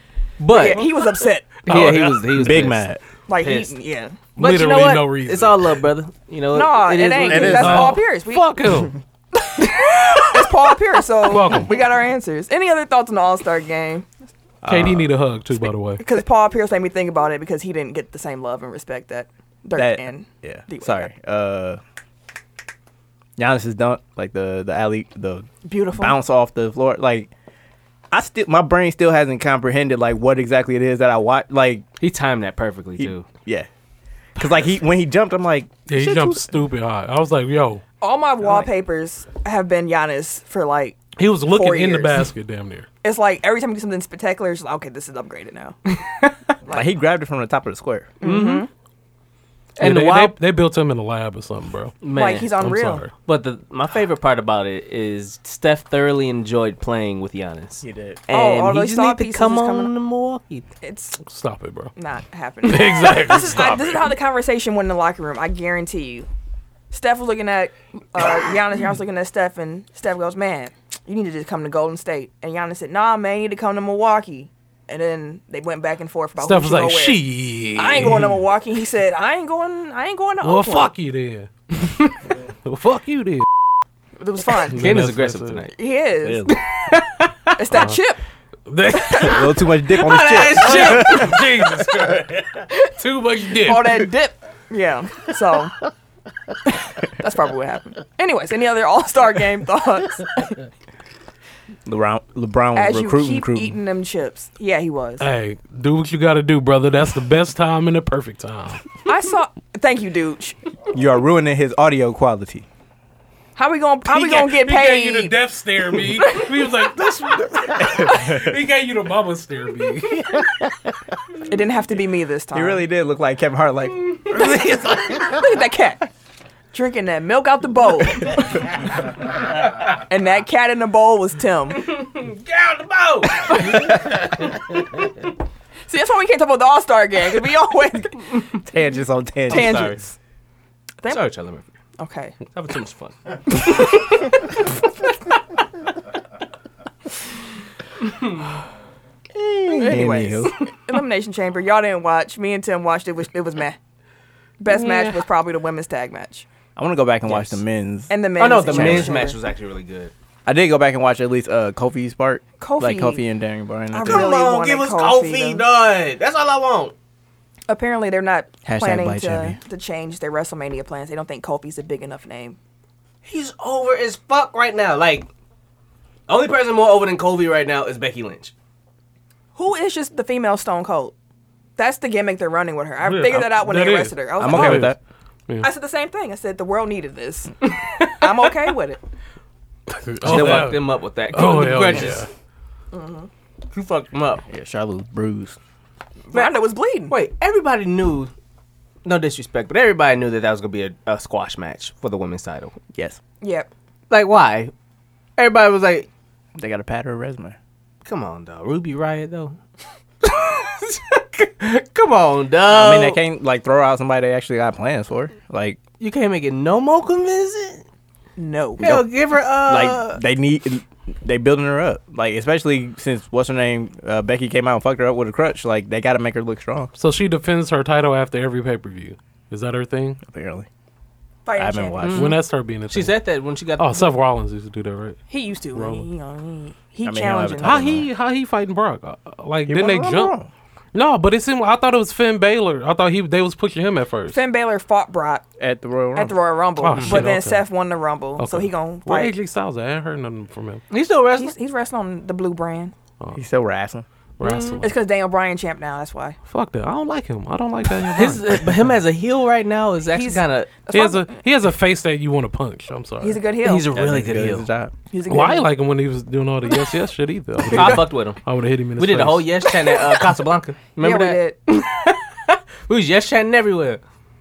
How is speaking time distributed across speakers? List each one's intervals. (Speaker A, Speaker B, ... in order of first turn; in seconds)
Speaker A: 0.4-0.9, 1.6-2.9, 3.4-3.8, 4.4-7.9, 32.0-33.3, 46.0-46.3, 48.2-48.7, 49.8-50.4, 52.0-52.5, 53.2-60.7, 84.8-85.7, 86.5-87.6, 89.9-91.3, 131.8-134.2, 139.5-140.0, 141.1-141.7, 142.5-143.9, 148.0-148.4, 149.6-149.9, 157.3-157.6, 158.4-160.1, 164.1-166.9, 173.2-175.3, 176.3-178.5, 187.7-188.2, 190.2-192.3, 193.7-194.4, 196.3-198.3, 199.1-202.8, 204.1-204.7, 205.4-206.1, 208.1-209.6, 210.2-213.2, 216.0-217.8, 218.8-220.2, 232.0-232.4, 232.9-234.1, 250.9-251.6, 254.4-254.8, 258.2-260.7, 263.6-264.7, 267.7-268.4, 269.0-274.0
Speaker B: 0.5-1.5, 3.3-4.2, 6.5-8.6, 9.4-14.1, 16.0-21.1, 25.6-26.2, 38.0-42.2, 43.0-45.8, 48.2-48.7, 52.1-53.1, 58.3-60.0, 60.8-61.2, 62.0-66.3, 66.9-77.2, 77.8-80.9, 84.2-84.8, 85.7-86.5, 87.6-88.2, 88.9-89.4, 93.5-95.8, 96.7-100.6, 102.8-105.2, 109.1-110.6, 113.6-115.3, 121.4-122.8, 124.3-126.1, 126.7-128.7, 129.8-132.0, 133.6-133.9, 135.9-138.4, 139.5-140.2, 142.0-142.4, 149.7-153.8, 154.6-156.5, 158.1-159.4, 162.6-163.2, 163.9-165.7, 167.7-172.6, 179.6-181.1, 181.8-184.9, 185.6-189.0, 192.9-193.3, 196.3-197.1, 203.4-203.7, 218.4-219.0, 231.4-232.1, 235.3-238.0, 244.3-245.4, 246.2-249.3, 251.3-252.9, 254.8-256.4, 260.1-261.3, 263.2-263.9, 265.1-265.7, 271.0-271.6
Speaker C: 1.7-2.2, 4.4-5.8, 7.3-8.9, 11.3-11.7, 14.7-16.1, 35.9-37.8, 41.2-42.9, 49.8-52.0, 52.6-53.1, 61.2-61.9, 62.6-64.1, 76.4-78.3, 80.4-81.9, 82.7-83.5, 84.7-85.7, 87.7-88.0, 88.7-89.5, 90.6-94.1, 105.2-108.8, 114.1-120.5, 154.7-155.2, 183.0-185.0, 189.9-192.3, 227.0-230.2, 232.2-233.2, 233.8-235.2, 235.7-236.1, 237.6-240.3, 240.9-244.4, 246.8-247.7, 248.4-250.8, 254.4-255.0, 256.5-258.9, 260.9-263.4, 265.3-269.7
Speaker D: 1.7-3.0, 7.2-7.9, 14.6-15.1, 19.8-21.8, 23.4-27.3, 28.1-31.9, 33.0-33.7, 34.4-36.5, 46.7-48.1, 57.8-58.2, 86.2-86.6, 89.2-91.4, 101.9-103.8, 110.9-112.7, 118.0-118.5, 122.5-124.6, 138.7-140.0, 149.7-150.5, 156.8-159.3, 160.5-164.3, 168.7-169.6, 184.4-185.0, 190.2-190.8, 194.5-195.6, 202.9-203.2, 206.6-207.6, 212.7-215.8, 219.7-226.9, 230.2-230.7, 231.6-232.4, 237.1-238.1, 239.7-240.5, 245.6-246.3, 253.3-254.1, 263.9-264.9